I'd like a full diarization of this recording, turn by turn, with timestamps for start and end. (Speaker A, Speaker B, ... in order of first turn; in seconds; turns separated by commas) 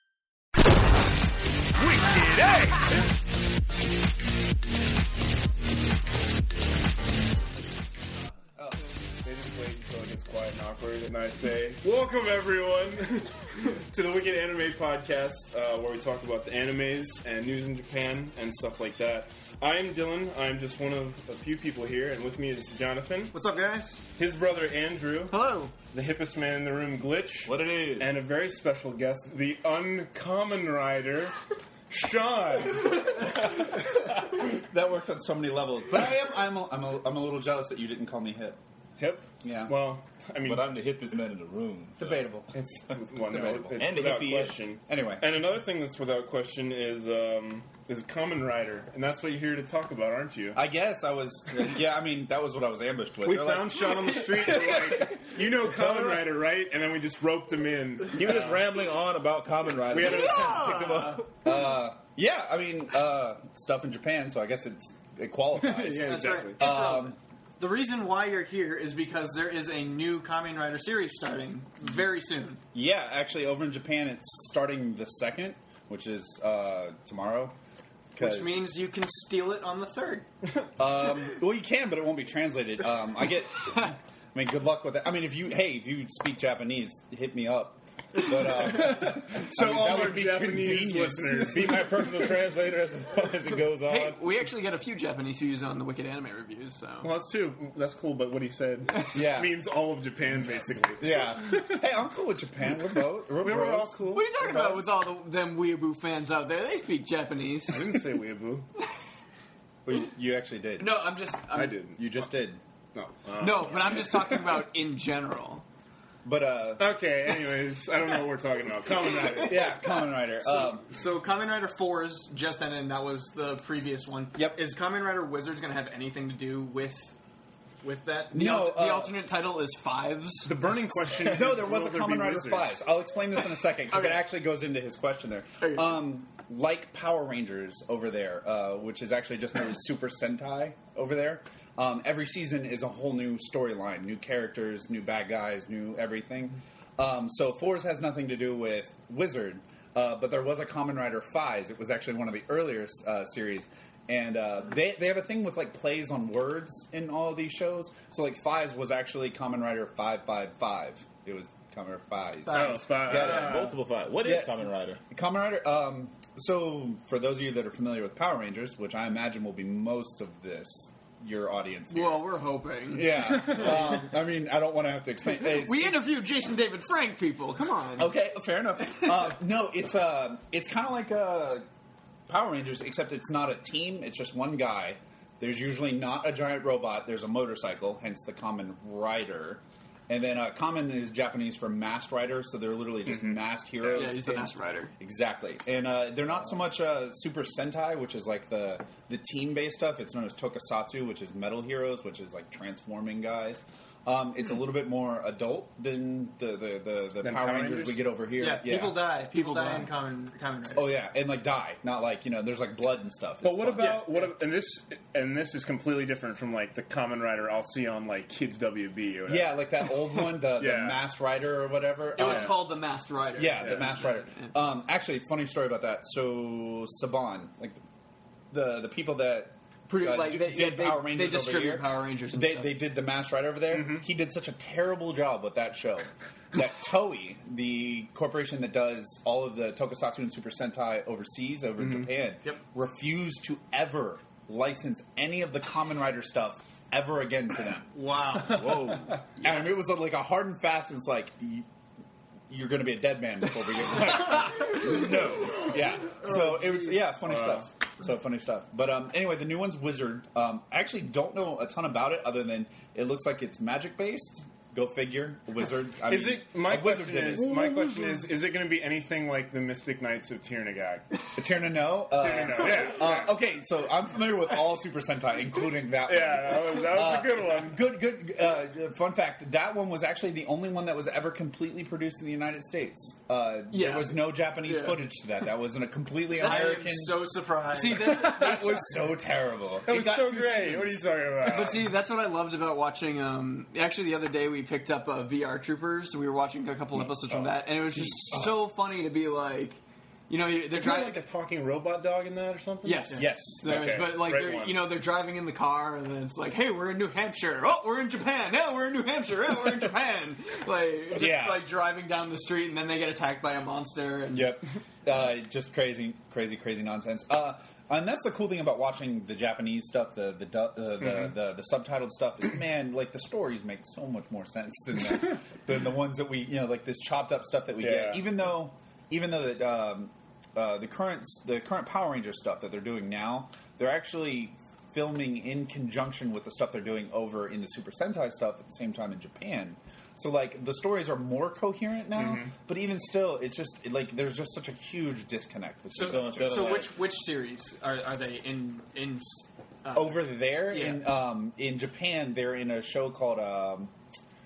Speaker A: 2.0-2.7, Speaker B: 9.2-23.3, Speaker C: 23.3-24.0, Speaker B: 24.2-25.4, Speaker C: 25.3-25.7, Speaker B: 25.9-31.4, Speaker D: 27.4-28.1, Speaker B: 31.9-33.6, Speaker A: 34.6-38.6, Speaker B: 39.0-40.7, Speaker A: 39.4-39.7, Speaker D: 40.4-42.3, Speaker A: 42.0-42.5, Speaker B: 42.6-50.6, Speaker D: 42.9-44.6, Speaker A: 44.9-45.3, Speaker A: 50.5-55.3, Speaker B: 53.2-58.6, Speaker D: 58.1-61.3, Speaker B: 59.9-61.2, Speaker C: 60.1-61.0, Speaker A: 61.4-67.2, Speaker B: 65.6-66.6, Speaker C: 66.0-72.6, Speaker A: 72.7-77.5, Speaker A: 78.1-78.7, Speaker C: 78.2-80.3, Speaker A: 80.8-91.6, Speaker B: 88.9-91.9, Speaker D: 91.5-94.2, Speaker C: 93.8-97.1, Speaker B: 97.0-101.2, Speaker A: 99.1-99.5, Speaker A: 101.0-104.0, Speaker B: 103.4-104.8, Speaker C: 104.1-108.0, Speaker B: 107.7-108.7, Speaker A: 109.8-111.1, Speaker C: 110.8-111.8, Speaker B: 111.5-112.0, Speaker A: 112.0-112.6, Speaker B: 112.9-114.4, Speaker C: 113.4-115.6, Speaker A: 116.2-117.0, Speaker B: 116.8-119.8, Speaker A: 119.4-120.8, Speaker C: 120.4-127.1, Speaker A: 124.3-124.6, Speaker C: 127.8-130.5, Speaker A: 128.3-129.1, Speaker B: 130.4-132.7, Speaker A: 131.2-163.7, Speaker C: 133.9-134.2, Speaker C: 135.6-135.9, Speaker C: 162.4-163.2, Speaker B: 162.5-163.8, Speaker D: 163.1-165.0, Speaker A: 164.2-172.2, Speaker C: 171.9-174.1, Speaker A: 172.9-176.1, Speaker C: 175.3-178.1, Speaker A: 178.0-181.6, Speaker A: 182.3-209.9, Speaker B: 193.1-194.1, Speaker C: 193.9-194.9, Speaker B: 207.2-208.1, Speaker C: 208.4-210.9, Speaker B: 209.3-209.8, Speaker A: 210.7-214.2, Speaker B: 213.4-221.0, Speaker C: 213.8-214.2, Speaker A: 219.3-222.7, Speaker C: 222.2-224.5, Speaker B: 222.2-222.5, Speaker A: 223.3-227.8, Speaker A: 228.5-247.9, Speaker C: 229.9-232.7, Speaker B: 233.7-234.1, Speaker B: 241.8-242.1, Speaker C: 247.9-249.6, Speaker D: 248.4-249.2, Speaker A: 249.4-251.7, Speaker A: 252.5-267.7, Speaker D: 254.6-255.7, Speaker B: 257.2-257.7, Speaker B: 266.1-271.2, Speaker A: 271.4-291.0, Speaker B: 272.1-273.3, Speaker B: 276.0-277.8, Speaker C: 283.7-285.0, Speaker C: 286.3-288.9, Speaker B: 289.9-291.9, Speaker C: 291.4-301.2, Speaker A: 297.9-298.7, Speaker B: 300.7-304.8, Speaker C: 302.8-314.6, Speaker A: 303.1-303.9, Speaker A: 311.1-311.6, Speaker A: 314.3-346.8, Speaker B: 321.0-321.3, Speaker B: 327.8-328.2, Speaker B: 342.1-342.5, Speaker C: 345.9-351.0, Speaker D: 346.0-346.9, Speaker A: 349.9-353.9